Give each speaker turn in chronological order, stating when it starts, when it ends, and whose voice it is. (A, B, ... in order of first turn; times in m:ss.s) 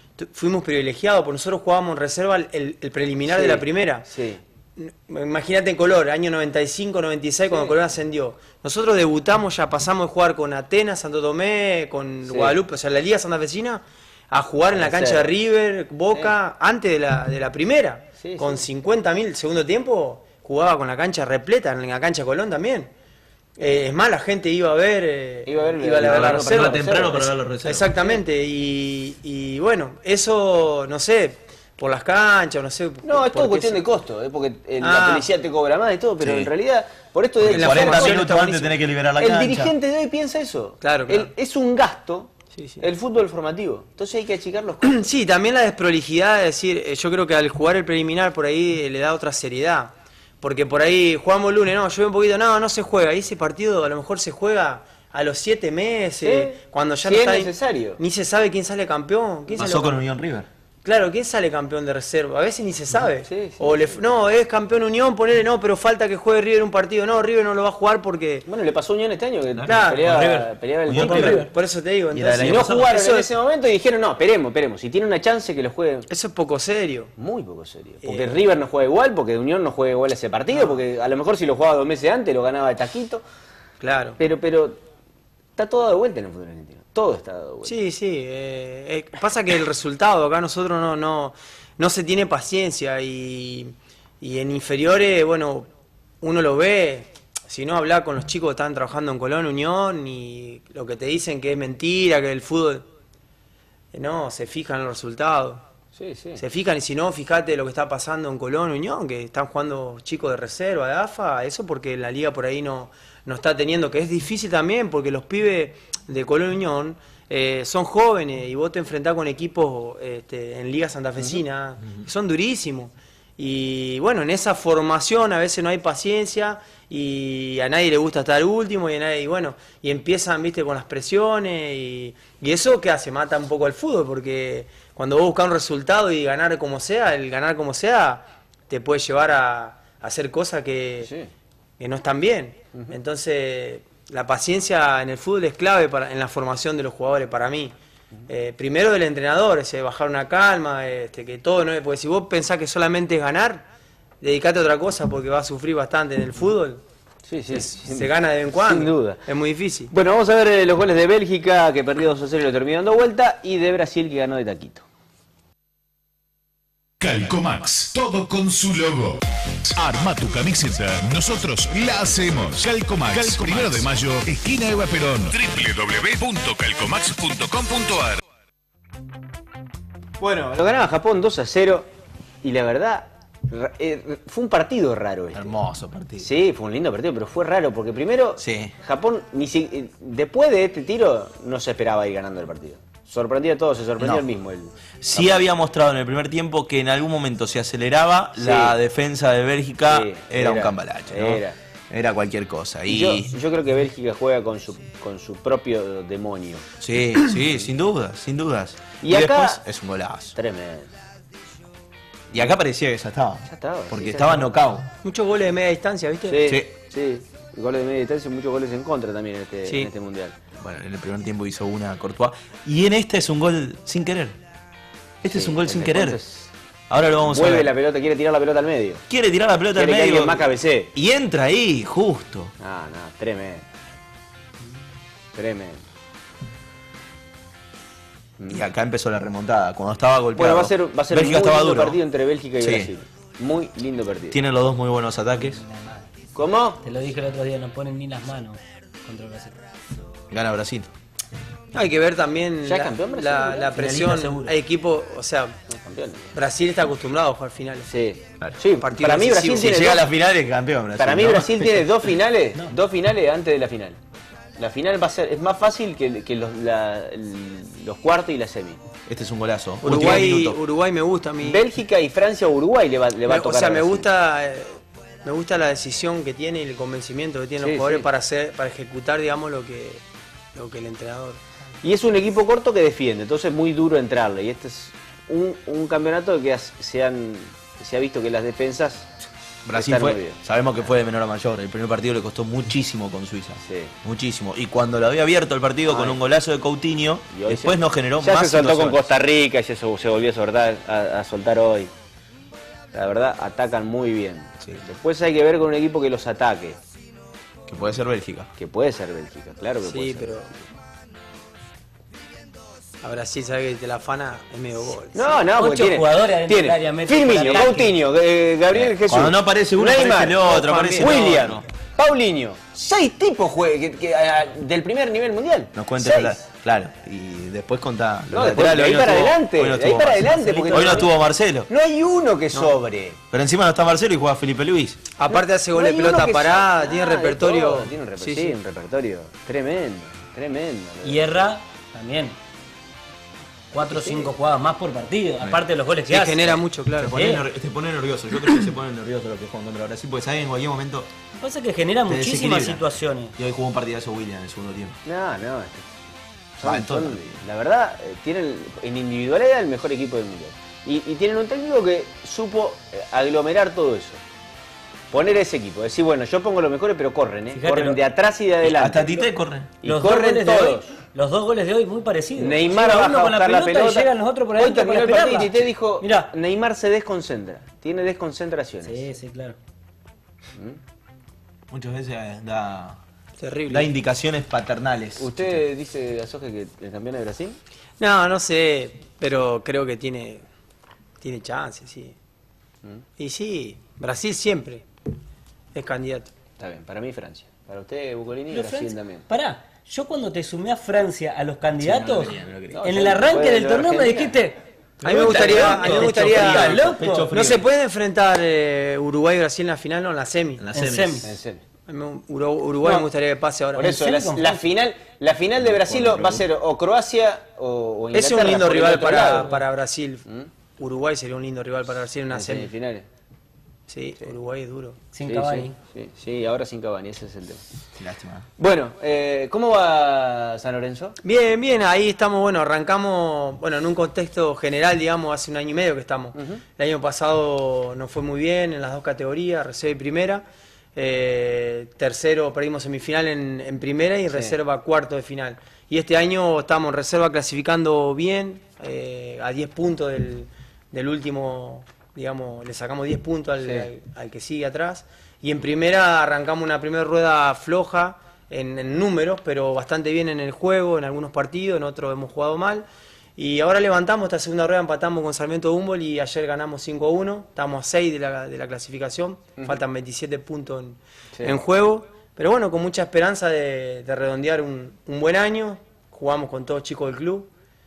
0:00.2-0:04.1 A
0:03.3-0:04.4 B
0:04.8-0:22.9 A
0:07.5-0:07.8 B
0:12.3-0:12.6 B
0:14.7-0:15.3 B
0:18.2-0:18.6 B
0:23.6-0:33.8 A
0:25.5-0:27.3 B
0:26.0-0:27.9 C
0:33.0-0:38.4 B
0:34.8-0:35.3 A
0:36.2-0:36.5 C
0:37.4-0:39.7 C
0:37.5-0:38.7 A
0:39.2-0:45.0 B
0:40.8-0:41.3 A
0:42.6-0:42.8 A
0:44.8-1:00.0 A
0:56.2-0:58.0 B
0:59.5-1:00.5 C
1:00.8-1:08.5 A
1:03.2-1:04.2 B
1:08.5-1:11.5 B
1:09.6-1:10.4 A
1:10.9-1:11.4 C
1:11.0-1:13.3 A
1:11.0-1:11.5 D
1:12.1-1:12.9 C
1:12.4-1:16.1 B
1:16.1-1:17.1 A
1:17.2-1:23.2 B
1:18.0-1:18.4 A
1:20.5-1:20.8 A
1:23.8-1:24.2 A
1:24.2-1:24.8 B
1:25.6-1:27.8 B
1:27.6-1:35.7 A
1:36.2-1:42.8 A
1:43.9-1:45.6 A
1:46.0-1:46.4 B
1:46.4-2:21.1 A
2:21.0-2:21.3 B
2:21.8-2:27.7 A
2:28.3-2:33.6 A
2:34.2-2:36.8 A
2:37.3-2:39.2 B
2:37.5-2:39.9 A
2:39.9-2:44.8 B
2:47.0-2:58.2 E
3:00.2-3:01.9 B
3:02.4-3:05.6 B
3:05.3-3:06.3 C
3:06.2-3:15.5 B
3:08.4-3:08.7 C
3:14.0-3:14.3 C
3:15.0-3:23.3 C
3:18.4-3:18.8 B
3:19.9-3:21.6 B
3:22.9-3:26.7 B
3:26.8-3:30.3 C
3:27.3-3:27.7 B
3:29.0-3:29.6 B
3:30.4-3:30.9 B
3:32.3-3:34.9 C
3:33.5-3:34.5 B
3:35.0-3:36.4 A
3:36.3-3:40.4 B
3:36.4-3:36.7 C
3:39.6-3:39.9 A
3:40.6-3:44.4 C
3:45.2-3:46.2 C
3:45.2-3:46.5 B
3:46.9-3:47.7 C
3:47.3-3:49.0 B
3:49.1-3:52.5 C
3:49.8-3:50.9 B
3:52.6-3:53.7 B
3:55.4-3:55.8 B
3:58.4-3:58.7 B
3:58.5-4:02.0 C
4:00.4-4:04.4 B
4:02.6-4:02.9 C
4:04.3-4:05.6 C
4:05.6-4:06.0 D
4:06.4-4:06.8 B
4:06.8-4:09.6 D
4:10.3-4:10.9 C
4:11.7-4:15.6 A
4:12.6-4:14.0 B
4:13.9-4:14.5 D
4:15.8-4:16.3 B
4:16.4-4:17.9 A
4:17.9-4:20.0 B
4:18.8-4:19.8 A
4:19.6-4:22.0 C
4:21.0-4:24.0 B
4:24.6-4:28.8 B
4:29.1-4:30.6 C
4:29.8-4:31.7 A
4:29.9-4:30.2 B
4:31.4-4:34.1 B
4:33.2-4:40.0 A
4:37.6-4:38.1 B
4:40.5-4:41.4 A
4:41.8-4:49.1 B
4:49.7-4:59.1 C
4:49.7-4:50.4 B
4:53.6-4:53.9 B
4:55.9-4:56.2 B
4:57.3-5:01.9 B
5:02.9-5:06.8 B
5:07.7-5:08.5 C
5:08.6-5:10.4 B
5:09.8-5:10.5 A
5:13.0-5:15.4 A
5:15.1-5:26.4 B
5:15.6-5:18.0 D
5:18.7-5:21.6 C
5:20.4-5:21.6 A
5:25.8-5:31.7 C
5:28.3-5:31.1 B
5:30.2-5:31.1 D
5:31.7-5:33.2 B
5:33.3-5:35.0 C
5:35.2-5:38.6 A
5:35.3-5:41.3 B
5:41.0-5:42.4 D
5:43.7-5:46.6 D
5:43.8-5:44.3 B
5:46.1-5:47.2 A
5:47.0-5:51.1 C
5:47.1-5:47.4 D
5:51.4-5:53.3 D
5:52.1-5:55.0 C
5:55.0-5:55.9 B
5:56.6-6:04.2 B
5:56.6-5:57.4 C
6:05.1-6:09.2 B
6:07.5-6:08.0 D
6:08.6-6:09.7 C
6:09.8-6:10.9 B
6:09.8-6:16.3 D
6:12.4-6:19.0 B
6:18.8-6:19.6 D
6:21.7-6:23.0 C
6:23.4-6:23.9 A
6:23.7-6:25.3 C
6:25.2-6:27.6 B
6:28.0-6:30.4 A
6:31.2-6:32.2 A
6:33.2-6:34.8 A
6:35.8-6:36.3 A
6:36.6-6:39.3 B
6:38.5-6:44.6 D
6:41.8-6:42.9 C
6:42.7-6:44.4 B
6:45.0-6:47.6 C
6:45.0-6:50.6 A
6:45.4-6:47.3 D
6:50.6-6:51.2 C
6:50.7-6:51.3 D
6:51.2-6:51.6 B
6:51.9-6:53.9 A
6:53.8-6:59.5 B
6:53.8-6:54.6 D
6:55.6-6:56.5 C
6:58.1-7:00.2 A
6:59.4-6:59.6 D
7:00.8-7:02.7 A
7:02.3-7:03.1 B
7:03.9-7:05.0 A
7:05.1-7:05.8 D
7:05.2-7:07.6 B
7:08.0-7:08.5 C
7:08.6-7:11.2 B
7:11.2-7:57.5 A
7:16.4-7:16.6 B
7:24.3-7:24.6 B
7:33.6-7:33.9 B